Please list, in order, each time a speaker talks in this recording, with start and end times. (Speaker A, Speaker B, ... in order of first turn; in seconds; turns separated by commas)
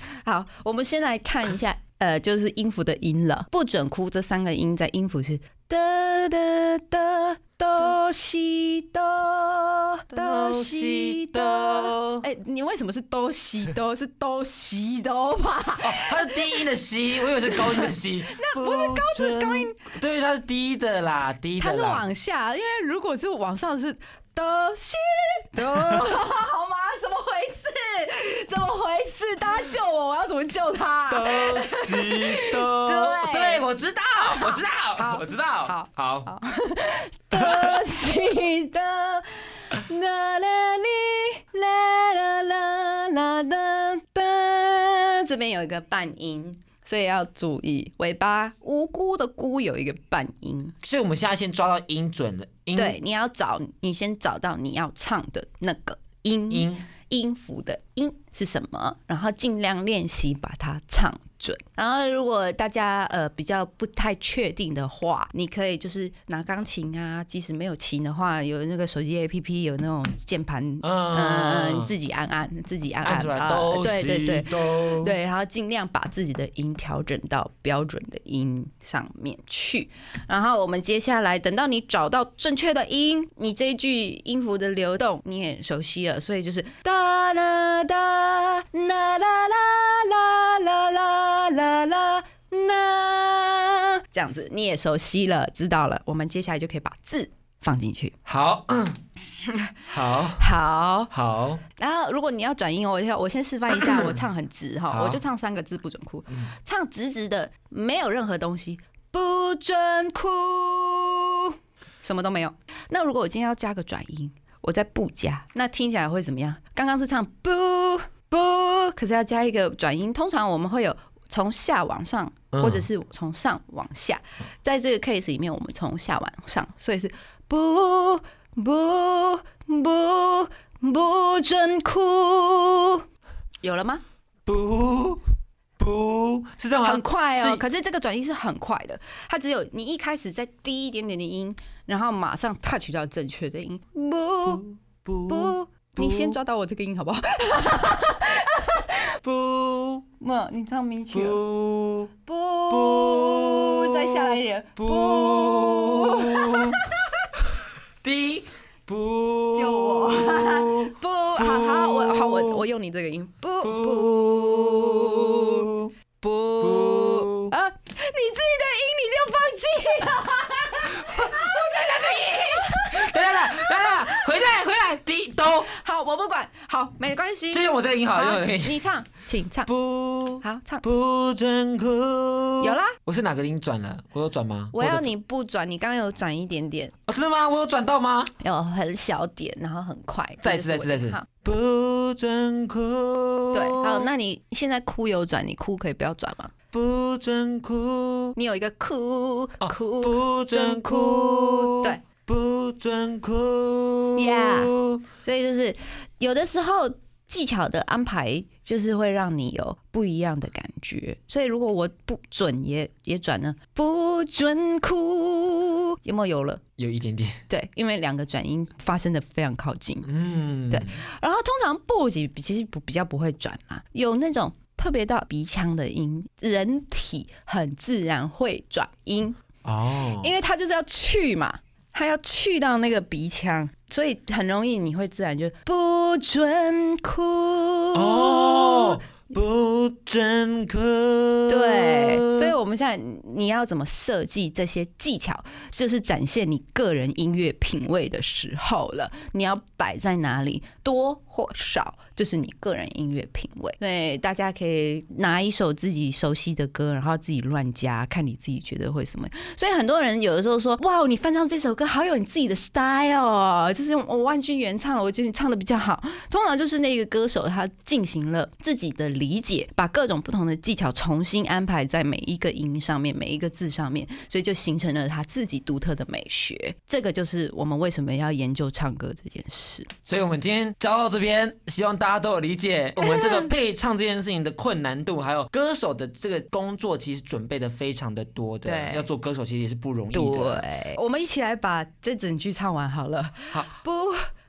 Speaker A: 0.2-16.7, Speaker B: 10.1-12.2, Speaker B: 15.8-22.0, Speaker A: 17.3-19.8, Speaker A: 21.6-33.6, Speaker B: 25.6-26.1, Speaker B: 31.1-36.3, Speaker A: 34.3-50.8, Speaker B: 37.3-37.8, Speaker B: 50.8-53.0, Speaker A: 52.7-98.1, Speaker B: 56.5-56.9, Speaker B: 70.8-71.9, Speaker B: 73.0-75.1, Speaker B: 98.2-99.0, Speaker A: 99.4-101.1, Speaker B: 99.9-100.5, Speaker B: 101.1-101.6, Speaker A: 101.8-133.0, Speaker B: 103.7-104.2, Speaker B: 104.9-105.2, Speaker B: 106.3-106.5, Speaker B: 122.5-122.8, Speaker A: 133.6-134.0, Speaker B: 134.4-135.2, Speaker B: 135.8-137.6, Speaker A: 136.8-144.6, Speaker B: 144.4-146.4, Speaker A: 145.3-149.2, Speaker B: 149.2-150.1, Speaker A: 150.2-151.4, Speaker B: 151.1-152.1, Speaker A: 152.2-157.3, Speaker B: 152.7-156.8, Speaker B: 158.0-162.6, Speaker A: 159.5-165.7, Speaker B: 163.6-165.9, Speaker A: 166.2-174.2, Speaker B: 166.6-167.6, Speaker B: 170.9-175.7, Speaker A: 175.6-179.7, Speaker B: 177.5-178.8, Speaker B: 179.7-185.1, Speaker A: 180.4-180.8, Speaker A: 182.6-183.0, Speaker A: 184.7-186.9, Speaker B: 187.1-188.3, Speaker A: 188.4-191.3, Speaker B: 190.4-194.1, Speaker A: 193.5-196.5, Speaker B: 196.7-198.3, Speaker A: 198.3-202.0, Speaker B: 199.6-205.1, Speaker A: 204.1-216.6, Speaker B: 216.8-217.4, Speaker A: 217.5-220.1, Speaker B: 220.0-221.0, Speaker A: 220.7-229.4, Speaker B: 229.6-230.3, Speaker A: 230.2-239.0, Speaker B: 237.9-242.5, Speaker A: 241.5-279.9, Speaker B: 280.0-290.7, Speaker A: 283.0-283.5, Speaker A: 288.6-289.1, Speaker A: 290.1-294.3